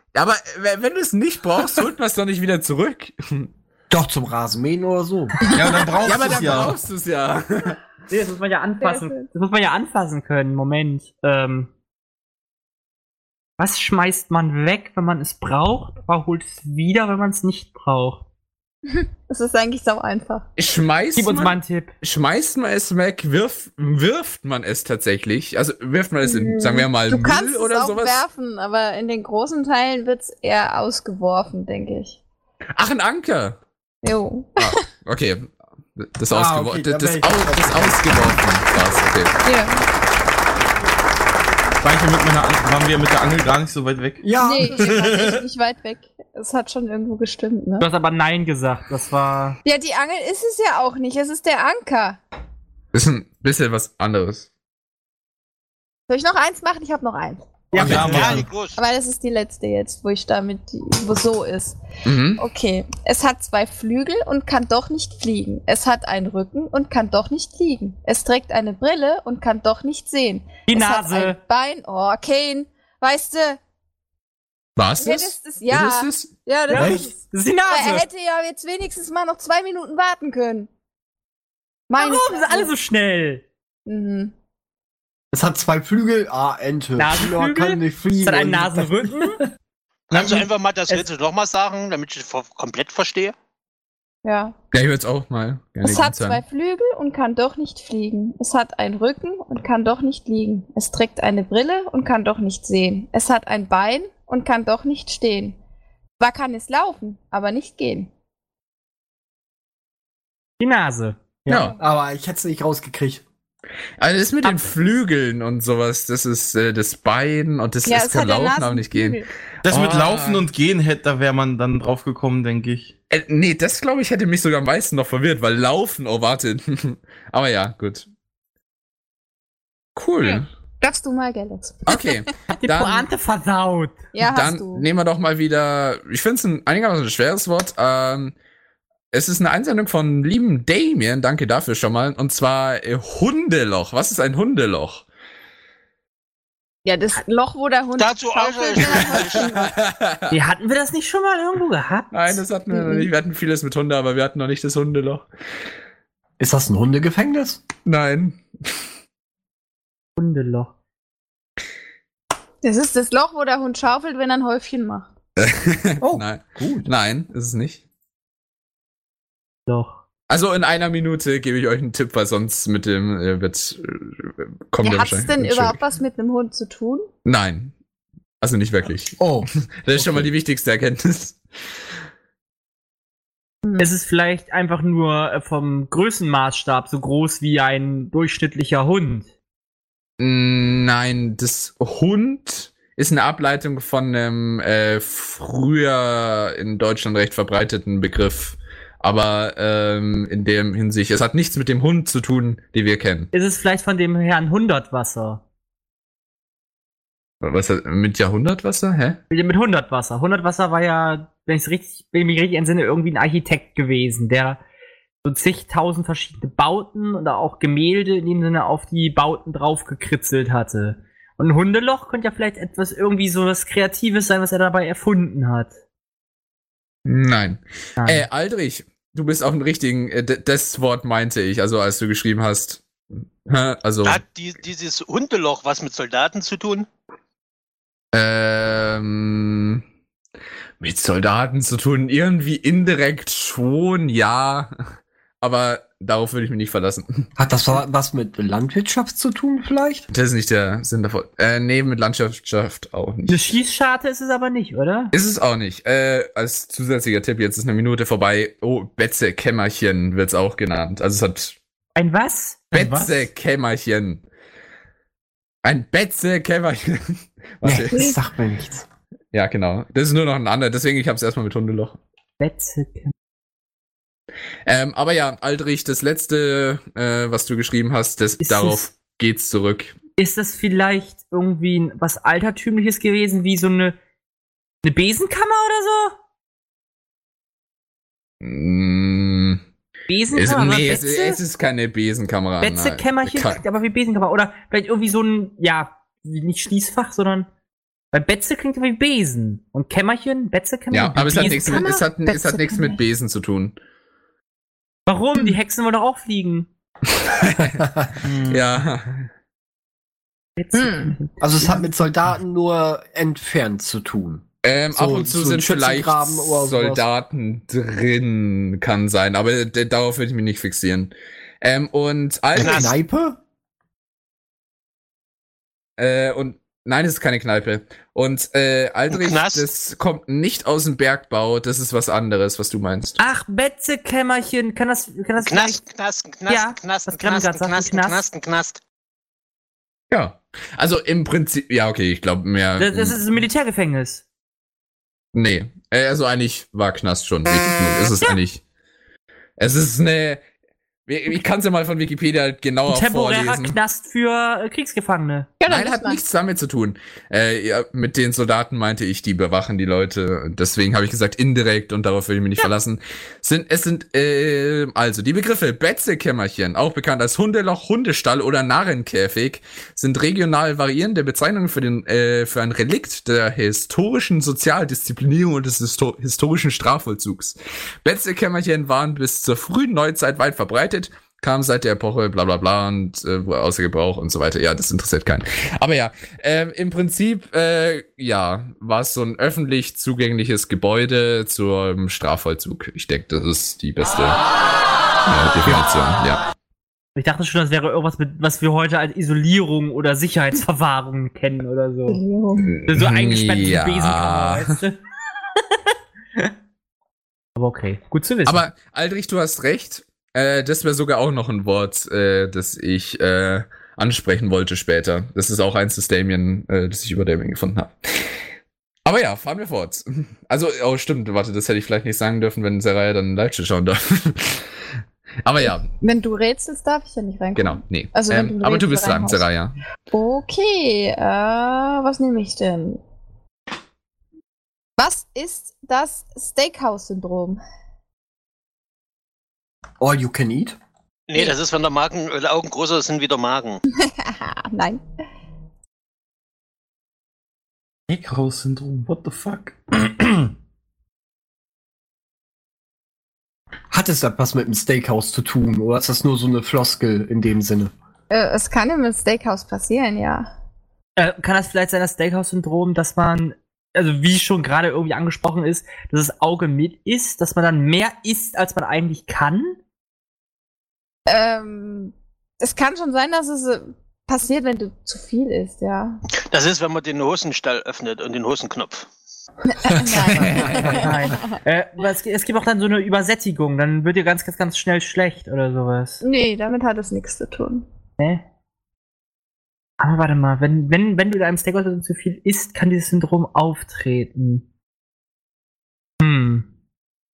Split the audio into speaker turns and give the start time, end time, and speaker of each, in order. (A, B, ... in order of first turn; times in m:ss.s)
0:00.1-0:03.5 A
0:03.9-0:06.3 B
0:05.5-0:06.8 C
0:06.0-0:07.8 A
0:08.1-0:11.7 D
0:08.8-0:09.3 E
0:13.6-0:18.2 D
0:18.9-0:20.5 E
0:20.6-0:28.2 A
0:21.2-0:21.9 D
0:26.2-0:32.2 E
0:32.8-0:33.6 A
0:34.0-0:34.8 E
0:34.6-0:39.3 A
0:36.3-0:38.0 B
0:39.4-0:39.8 E
0:41.8-0:44.2 C
0:44.2-0:44.9 B
0:44.4-0:47.9 E
0:44.8-0:45.4 C
0:47.8-0:49.6 D
0:49.6-0:52.2 E
0:52.9-0:54.5 A
0:56.1-0:57.5 E
0:57.7-0:58.4 D
0:57.7-0:58.5 C
0:57.8-0:58.4 A
0:57.9-0:58.8 F
0:58.8-1:01.8 E
1:02.1-1:02.4 A
1:02.4-1:13.6 E
1:10.7-1:11.4 D
1:14.8-1:16.3 A
1:15.0-1:17.1 E
1:16.7-1:18.1 D
1:16.8-1:17.1 B
1:17.7-1:20.7 E
1:21.9-1:22.7 E
1:22.0-1:23.4 D
1:23.9-1:24.3 E
1:25.3-1:29.3 B
1:27.0-1:29.4 D
1:30.1-1:33.4 F
1:30.1-1:30.5 C
1:34.2-1:34.6 E
1:34.7-1:36.4 A
1:35.8-1:45.6 E
1:46.2-1:48.1 E
1:50.6-1:51.7 D
1:51.5-1:51.8 A
1:51.8-1:53.2 B
1:54.0-2:00.5 A
1:57.8-1:59.3 E
1:59.6-2:02.9 C
2:03.1-2:08.1 A
2:10.0-2:10.5 A
2:10.2-2:12.2 E
2:11.9-2:13.1 A
2:12.5-2:14.0 D
2:14.1-2:14.9 E
2:14.2-2:18.4 A
2:19.1-2:25.0 A
2:26.8-2:29.7 E
2:28.0-2:29.7 F
2:28.8-2:30.4 A
2:30.3-2:32.4 D
2:32.1-2:35.3 A
2:32.7-2:33.1 E
2:36.4-2:37.6 B
2:37.8-2:38.4 A
2:40.2-2:40.7 D
2:42.6-2:45.1 E
2:45.4-2:47.8 A
2:46.0-2:46.9 B
2:49.7-2:50.0 D
2:50.3-2:55.8 A
2:54.8-2:57.1 E
2:57.2-2:57.7 A
2:58.4-2:59.2 A
2:59.2-3:00.3 B
2:59.8-3:01.4 A
3:03.6-3:03.9 E
3:03.8-3:09.3 D
3:10.2-3:23.3 A
3:23.3-3:25.4 D
3:27.4-3:29.2 A
3:29.3-3:34.6 D
3:35.2-3:45.8 D
3:47.0-3:52.8 A
3:48.0-3:48.3 D
3:53.4-3:54.2 A
3:54.0-3:56.9 F
3:58.1-3:59.8 A
4:00.8-4:04.7 A
4:05.4-4:07.3 A
4:07.4-4:10.1 B
4:10.1-4:13.5 A
4:13.3-4:15.1 D
4:15.1-4:21.6 A
4:22.0-4:22.7 D
4:22.7-4:24.2 A
4:25.6-4:28.1 A
4:27.6-4:28.8 B
4:29.3-4:32.0 A
4:32.4-4:33.1 D
4:34.7-4:40.0 A
4:38.4-4:38.8 D
4:40.2-4:44.0 D
4:44.8-4:46.2 D
4:48.4-4:49.6 A
4:50.1-4:51.4 D
4:50.3-4:53.6 A
4:52.6-4:57.5 D
4:58.1-5:02.0 D
5:00.9-5:03.8 A
5:01.3-5:03.0 E
5:05.1-5:06.7 D
5:07.2-5:07.8 A
5:08.2-5:08.6 C
5:08.5-5:09.3 A
5:10.6-5:11.8 D
5:10.7-5:11.2 E
5:11.4-5:17.0 B
5:14.6-5:23.0 A
5:22.6-5:23.4 B
5:22.6-5:22.9 F
5:26.0-5:33.2 A
5:29.1-5:29.7 F
5:33.2-5:35.8 D
5:35.4-5:38.8 F
5:36.5-5:38.2 D
5:40.1-5:43.2 A
5:42.8-5:44.2 D
5:45.3-5:48.6 A
5:49.6-5:50.4 A
5:51.1-5:53.8 A
5:52.9-5:55.5 D
5:55.6-5:56.2 E
5:55.7-6:34.4 A
6:35.3-6:36.4 A
6:37.2-6:42.2 D
6:42.1-6:42.7 E
6:42.6-6:44.7 A
6:42.9-6:45.0 D
6:47.6-6:48.6 D
6:48.4-6:58.3 A
6:59.0-7:04.7 A
7:05.4-7:05.8 A
7:05.7-7:09.5 E
7:07.6-7:09.8 A
7:10.1-7:13.0 E
7:15.0-7:17.6 E
7:20.0-7:20.8 B
7:21.3-7:23.8 F
7:24.0-7:25.0 E
7:28.1-7:30.5 C
7:33.9-7:37.9 B
7:38.3-7:40.5 E
7:41.2-7:49.8 D
7:51.3-7:56.2 E
7:56.5-7:59.1 F
7:59.7-8:01.4 E
8:00.1-8:01.1 A
8:00.8-8:06.2 D
8:06.2-8:07.9 E
8:08.2-8:08.4 D
8:10.0-8:14.7 D
8:16.2-8:16.7 D